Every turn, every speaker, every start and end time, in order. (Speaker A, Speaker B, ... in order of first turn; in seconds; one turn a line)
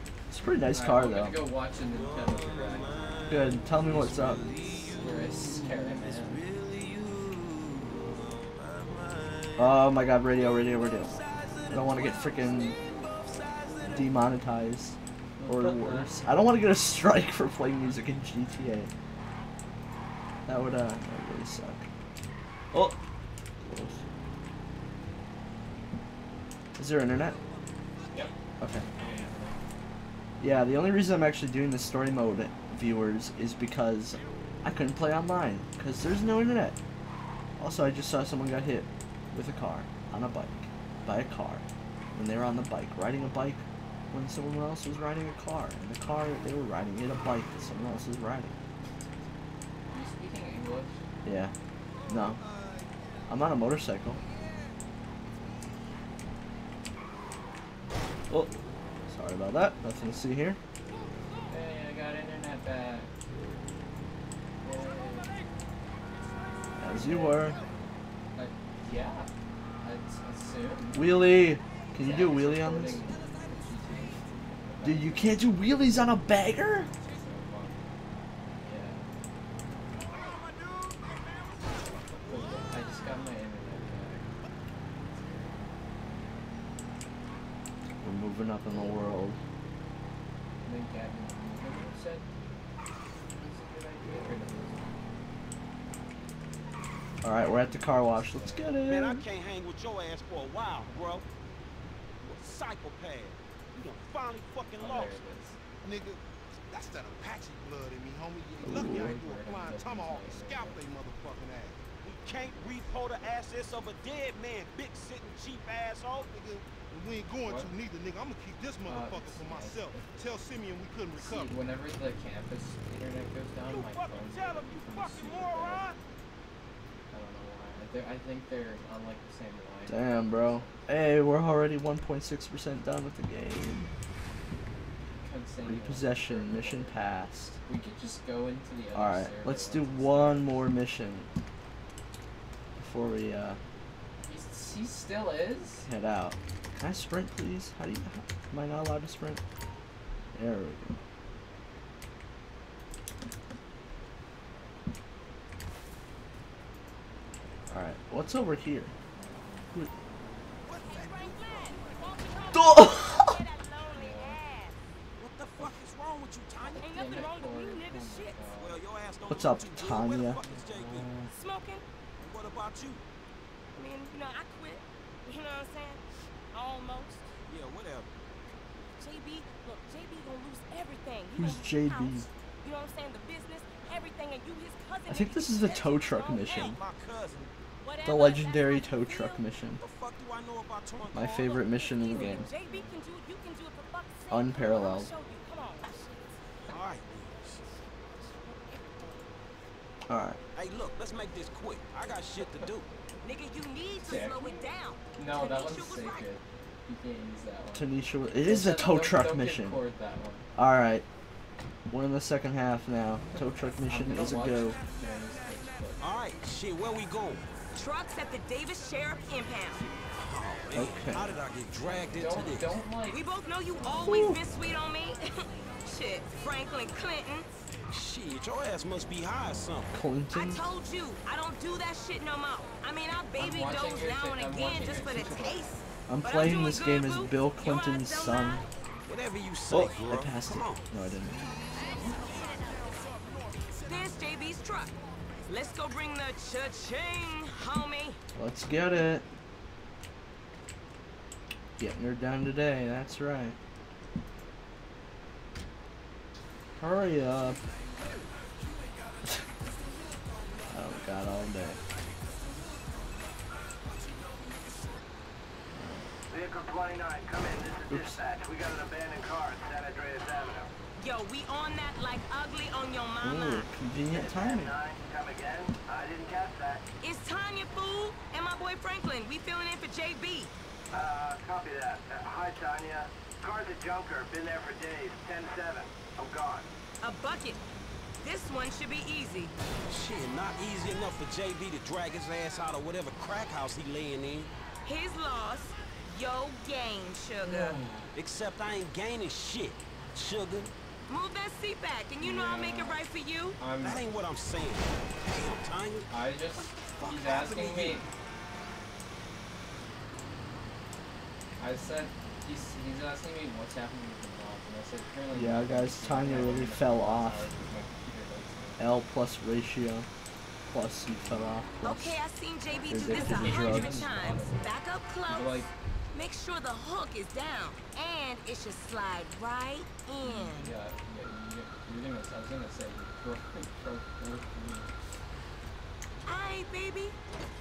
Speaker A: 0.3-1.4
Speaker B: 0.7-3.0
Speaker C: 1.8-9.8
Speaker A: 3.3-4.5
Speaker B: 4.6-6.4
Speaker A: 9.6-11.1
Speaker C: 10.4-14.1
Speaker A: 11.7-12.8
Speaker A: 13.9-18.9
Speaker B: 15.4-16.1
Speaker A: 20.4-21.9
Speaker A: 22.7-23.0
Speaker A: 23.6-24.0
Speaker A: 26.8-27.4
Speaker A: 28.6-28.8
Speaker B: 28.9-29.6
Speaker A: 30.4-36.8
Speaker A: 37.6-41.6
Speaker A: 42.1-48.5
Speaker B: 49.9-51.0
Speaker A: 51.2-51.5
Speaker A: 52.1-52.4
Speaker A: 53.3-54.2
Speaker A: 59.1-60.6
Speaker B: 61.5-63.1
Speaker B: 64.6-65.3
Speaker A: 66.8-67.6
Speaker B: 66.9-67.5
Speaker B: 68.3-71.2
Speaker A: 70.9-73.0
Speaker B: 72.0-75.4
Speaker A: 74.8-76.9
Speaker B: 77.0-77.8
Speaker B: 78.6-79.0
Speaker C: 80.2-81.1
Speaker B: 82.2-84.2
Speaker B: 84.8-85.7
Speaker A: 88.0-89.4
Speaker B: 90.6-92.2
Speaker B: 93.4-95.0
Speaker A: 97.2-99.2
Speaker B: 97.3-98.7
Speaker C: 98.8-101.2
Speaker C: 102.2-105.2
Speaker B: 104.8-105.6
Speaker D: 105.8-111.8
Speaker A: 108.6-109.1
Speaker B: 108.7-110.8
Speaker C: 112.0-116.4
Speaker D: 116.3-121.5
Speaker B: 117.4-117.7
Speaker B: 118.8-120.1
Speaker B: 121.2-125.9
Speaker C: 123.7-126.0
Speaker B: 127.1-130.7
Speaker A: 129.9-133.9
Speaker B: 135.2-137.0
Speaker A: 135.6-137.6
Speaker B: 137.6-140.6
Speaker A: 138.9-141.3
Speaker A: 142.8-143.6
Speaker B: 144.2-145.9
Speaker A: 145.8-149.4
Speaker A: 150.3-151.0
Speaker A: 157.7-158.9
Speaker C: 160.6-162.1
Speaker E: 160.8-164.8
Speaker A: 162.5-163.4
Speaker B: 163.9-164.4
Speaker C: 165.2-166.9
Speaker E: 166.8-168.4
Speaker B: 166.8-168.8
Speaker C: 168.5-171.1
Speaker A: 169.3-170.4
Speaker B: 170.4-171.3
Speaker E: 171.3-171.8
Speaker C: 172.2-173.0
Speaker E: 173.8-177.3
Speaker C: 177.5-178.1
Speaker E: 179.0-186.8
Speaker A: 181.3-182.3
Speaker A: 185.1-186.8
Speaker C: 186.3-187.5
Speaker E: 187.8-189.4
Speaker A: 188.0-189.8
Speaker C: 189.8-191.6
Speaker A: 191.1-192.4
Speaker E: 191.6-196.1
Speaker B: 192.1-192.9
Speaker A: 194.3-195.1
Speaker C: 196.7-197.7
Speaker E: 198.3-198.8
Speaker A: 200.1-200.4
Speaker C: 200.5-202.9
Speaker E: 203.2-206.3
Speaker B: 204.0-204.5
Speaker B: 205.1-210.5
Speaker A: 207.7-209.8
Speaker A: 210.5-211.0
Speaker A: 211.9-214.8
Speaker B: 213.9-216.0
Speaker C: 216.0-217.4
Speaker E: 217.7-219.9
Speaker C: 220.0-222.8
Speaker A: 220.7-221.4
Speaker B: 221.9-223.2
Speaker E: 223.1-227.5
Speaker B: 223.7-224.2
Speaker A: 224.1-224.4
Speaker C: 227.9-229.9
Speaker A: 229.9-230.7
Speaker E: 230.3-238.7
Speaker B: 233.3-235.6
Speaker A: 236.1-238.7
Speaker C: 239.1-241.9
Speaker A: 239.7-241.5
Speaker E: 243.8-244.9
Speaker E: 245.5-248.2
Speaker A: 248.3-249.2
Speaker A: 251.8-253.6
Speaker A: 256.8-257.6
Speaker A: 260.7-261.8
Speaker A: 265.7-266.1
Speaker F: 266.3-270.7
Speaker A: 267.9-268.2
Speaker E: 271.0-273.7
Speaker A: 273.2-274.7
Speaker F: 274.1-276.9
Speaker E: 277.0-280.5
Speaker F: 280.9-286.6
Speaker E: 287.0-287.6
Speaker E: 288.2-289.5
Speaker C: 289.9-294.5
Speaker E: 294.8-297.8
Speaker B: 297.4-298.1
Speaker C: 298.1-300.7
Speaker E: 301.1-303.6
Speaker B: 302.2-303.0
Speaker B: 303.6-304.0
Speaker C: 303.8-308.0
Speaker B: 306.1-308.1
Speaker B: 311.6-318.8
Speaker A: 315.3-317.5
Speaker A: 318.8-320.1
Speaker A: 320.6-322.2
Speaker E: 321.8-330.7
Speaker A: 322.9-324.3
Speaker B: 323.0-325.7
Speaker B: 330.2-334.9
Speaker E: 336.2-337.1